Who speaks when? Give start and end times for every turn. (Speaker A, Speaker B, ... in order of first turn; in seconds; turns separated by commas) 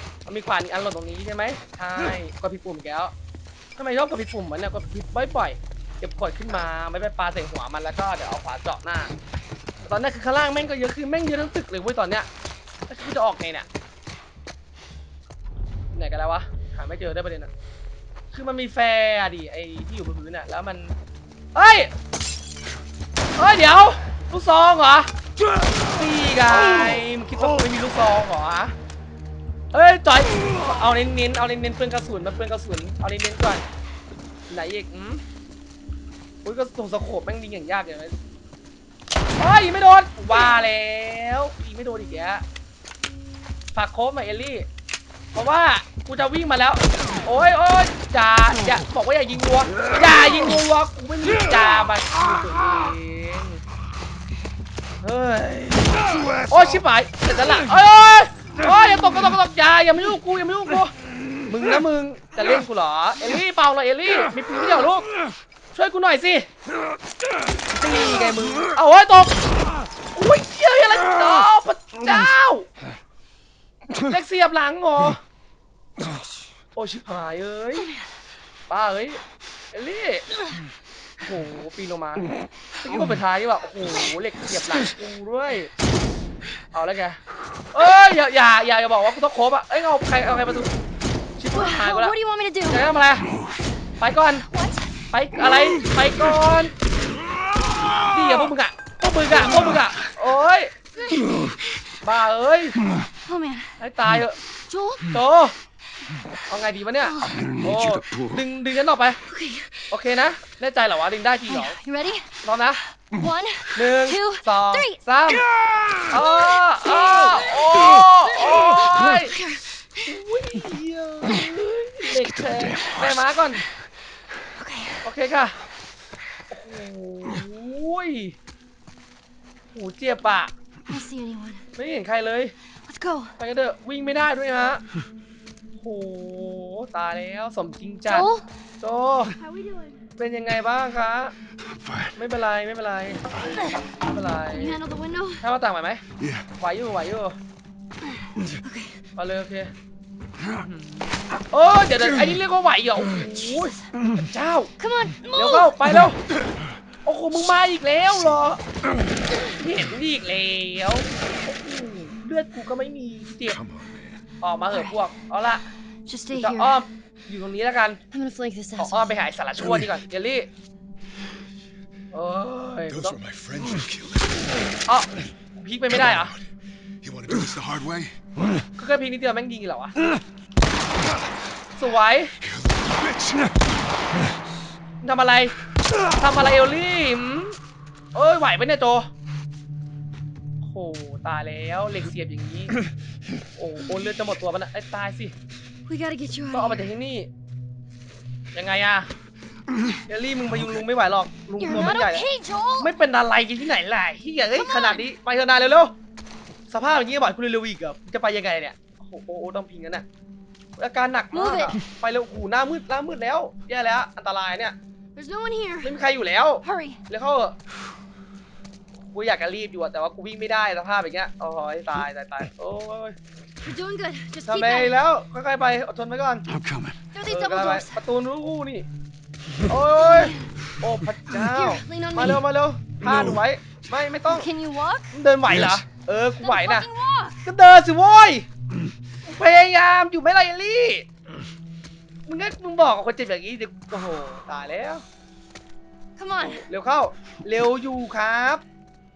Speaker A: 0.3-3.1, Speaker A: 3.8-9.1, Speaker A: 9.8-12.3, Speaker A: 12.9-13.7, Speaker A: 15.9-17.5, Speaker A: 18.3-20.9, Speaker A: 21.6-21.9, Speaker A: 23.4-25.1, Speaker A: 25.8-28.7, Speaker A: 29.7-33.6, Speaker A: 34.5-35.2, Speaker A: 36.5-38.1, Speaker A: 39.4-42.4, Speaker A: 43.8-44.7, Speaker A: 45.3-53.6, Speaker A: 55.0-60.9, Speaker A: 61.5-65.1, Speaker A: 65.7-66.5, Speaker A: 67.7-69.4, Speaker A: 70.1-72.7, Speaker A: 74.0-75.2, Speaker A: 76.8-77.9, Speaker A: 78.7-79.2, Speaker A: 79.7-80.2, Speaker A: 81.2-82.3, Speaker A: 82.8-85.7, Speaker A: 86.7-87.2, Speaker A: 87.7-90.7, Speaker A: 91.4-92.2, Speaker B: 91.5-92.9, Speaker A: 92.7-93.3, Speaker A: 94.0-94.5, Speaker B: 94.5-94.9, Speaker A: 95.1-96.7, Speaker A: 98.0-100.8, Speaker B: 101.0-101.7, Speaker A: 102.0-102.8, Speaker B: 103.3-103.7, Speaker A: 103.8-104.4, Speaker B: 104.7-105.0, Speaker A: 105.1-105.5, Speaker A: 106.5-109.2, Speaker B: 107.0-107.3, Speaker C: 107.5-108.2, Speaker B: 109.3-109.8, Speaker A: 109.9-111.8, Speaker B: 111.5-112.3, Speaker A: 112.4-112.8, Speaker B: 113.0-115.0, Speaker A: 113.8-115.5, Speaker A: 116.1-119.3, Speaker B: 116.1-120.1, Speaker A: 120.0-123.6, Speaker C: 122.8-123.2, Speaker B: 124.5-125.1, Speaker A: 125.0-125.6, Speaker A: 126.5-128.4, Speaker A: 129.7-130.5, Speaker B: 130.9-131.7, Speaker A: 131.8-132.5, Speaker B: 132.9-133.4, Speaker A: 133.4-134.8, Speaker A: 135.8-138.3, Speaker B: 138.1-138.4, Speaker A: 138.8-139.3, Speaker B: 139.3-140.1, Speaker A: 140.2-141.3, Speaker C: 141.8-142.1, Speaker A: 142.2-144.8, Speaker B: 143.5-143.8, Speaker B: 144.5-145.4, Speaker A: 145.4-146.0, Speaker C: 146.2-146.5, Speaker A: 146.6-147.4, Speaker B: 148.1-148.9, Speaker A: 149.2-149.7, Speaker A: 150.6-154.7, Speaker B: 153.2-153.8, Speaker B: 154.8-155.8, Speaker A: 155.3-156.2, Speaker A: 157.1-158.6, Speaker A: 159.5-163.6, Speaker C: 163.5-164.2, Speaker A: 164.4-165.7, Speaker B: 164.7-165.0, Speaker B: 166.1-166.8, Speaker A: 166.3-168.0, Speaker B: 168.1-169.3, Speaker A: 168.8-170.5, Speaker A: 172.1-173.2, Speaker C: 172.9-174.6, Speaker A: 174.9-176.3, Speaker C: 176.0-176.5, Speaker C: 177.0-178.2, Speaker A: 178.8-180.0, Speaker A: 181.8-182.3, Speaker C: 182.4-183.8, Speaker A: 185.0-185.6, Speaker A: 186.1-187.6, Speaker A: 188.1-189.1, Speaker A: 190.6-192.8, Speaker A: 193.6-195.3, Speaker B: 195.9-196.9, Speaker A: 196.5-197.3, Speaker A: 198.5-199.1, Speaker A: 200.1-202.3, Speaker B: 201.6-202.9, Speaker A: 202.8-205.9, Speaker B: 204.6-205.1, Speaker A: 206.7-210.1, Speaker A: 210.8-214.8, Speaker B: 211.3-211.8, Speaker B: 215.2-216.0, Speaker A: 215.8-217.6, Speaker B: 216.6-217.0, Speaker A: 219.0-223.2, Speaker B: 223.6-225.0, Speaker A: 224.4-226.5, Speaker C: 226.5-227.0, Speaker B: 227.1-228.0, Speaker A: 227.2-228.9, Speaker A: 229.7-234.5, Speaker B: 230.0-230.4, Speaker B: 231.3-232.4, Speaker B: 234.3-235.1, Speaker A: 235.1-236.9, Speaker B: 236.4-237.4, Speaker A: 237.4-238.5, Speaker A: 239.2-241.1, Speaker A: 242.3-245.0, Speaker B: 246.2-246.6, Speaker A: 246.4-248.6